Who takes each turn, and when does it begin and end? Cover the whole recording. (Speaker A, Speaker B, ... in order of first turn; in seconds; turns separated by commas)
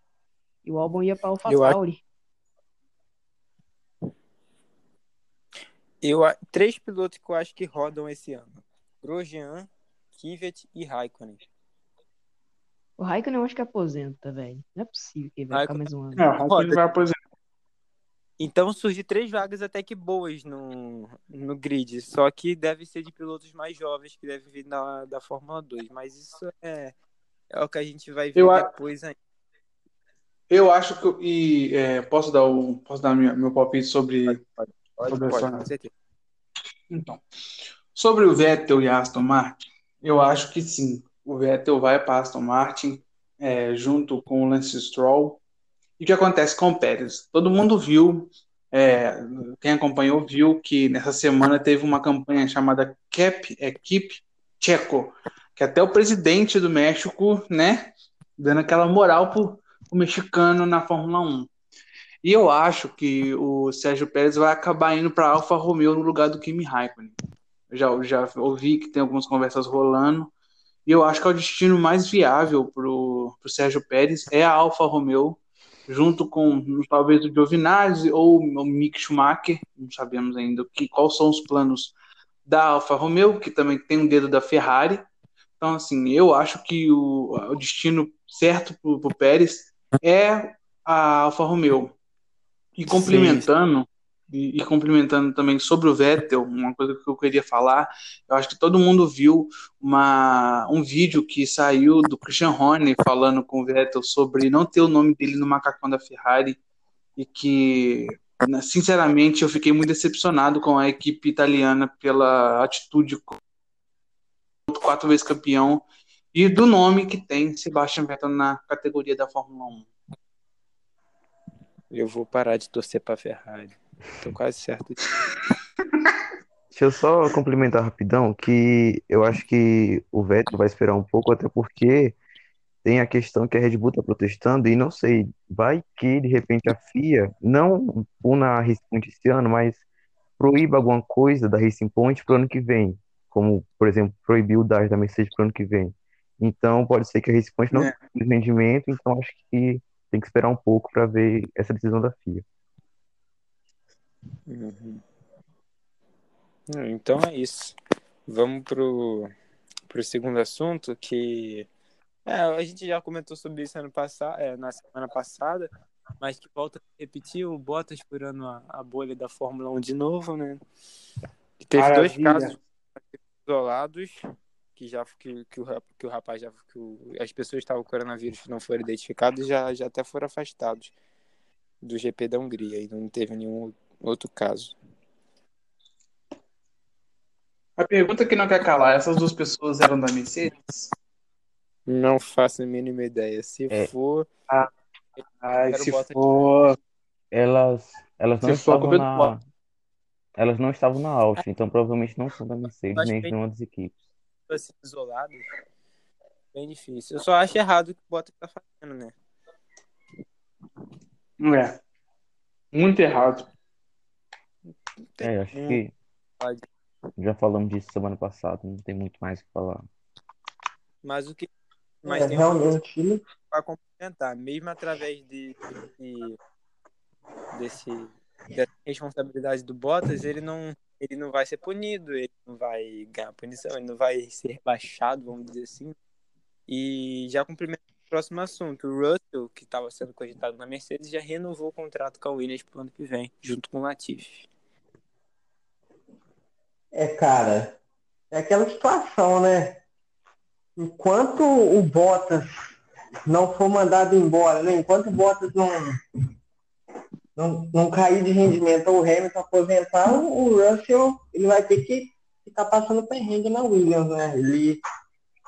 Speaker A: 0.6-2.0, Speaker B: 1.4-1.8, Speaker B: 6.0-11.4, Speaker A: 13.0-16.2, Speaker B: 15.5-15.9, Speaker C: 16.2-17.1, Speaker B: 16.5-16.8, Speaker B: 18.4-26.9, Speaker B: 27.5-29.1, Speaker C: 28.4-28.7, Speaker C: 30.5-34.4, Speaker B: 34.3-35.9, Speaker C: 35.1-35.6, Speaker C: 36.9-37.2, Speaker C: 38.0-45.4, Speaker C: 46.0-61.5, Speaker C: 62.2-67.2, Speaker C: 67.7-70.3, Speaker C: 70.8-81.9, Speaker C: 82.5-85.0, Speaker C: 85.6-91.9, Speaker C: 92.8-106.6, Speaker B: 92.9-93.5, Speaker C: 107.2-113.4, Speaker C: 114.7-119.9, Speaker B: 121.9-125.0, Speaker D: 126.7-132.2, Speaker D: 132.8-139.8, Speaker D: 140.4-152.4, Speaker C: 147.7-147.9, Speaker B: 154.5-155.0, Speaker B: 156.7-159.3, Speaker B: 159.9-161.7, Speaker B: 162.2-165.7, Speaker B: 166.2-170.6, Speaker B: 171.6-174.2, Speaker C: 171.7-172.5, Speaker B: 174.8-180.9, Speaker B: 181.8-184.7, Speaker C: 187.8-190.9, Speaker B: 191.9-194.3, Speaker B: 195.2-196.5, Speaker C: 195.4-196.8, Speaker D: 197.3-199.4, Speaker C: 198.4-199.3, Speaker D: 200.4-203.9, Speaker B: 202.9-203.3, Speaker B: 204.5-205.5, Speaker B: 206.5-209.1, Speaker C: 211.4-211.7, Speaker C: 212.7-213.5, Speaker B: 215.1-215.8, Speaker D: 215.2-215.9, Speaker B: 216.4-216.7, Speaker D: 217.2-219.8, Speaker B: 221.0-221.5, Speaker B: 222.0-222.8, Speaker E: 222.0-223.2, Speaker B: 223.5-226.4, Speaker B: 227.5-235.9, Speaker B: 236.7-244.5, Speaker E: 246.9-247.8, Speaker E: 248.3-249.8, Speaker E: 250.8-252.7, Speaker E: 253.2-256.0, Speaker E: 257.4-264.8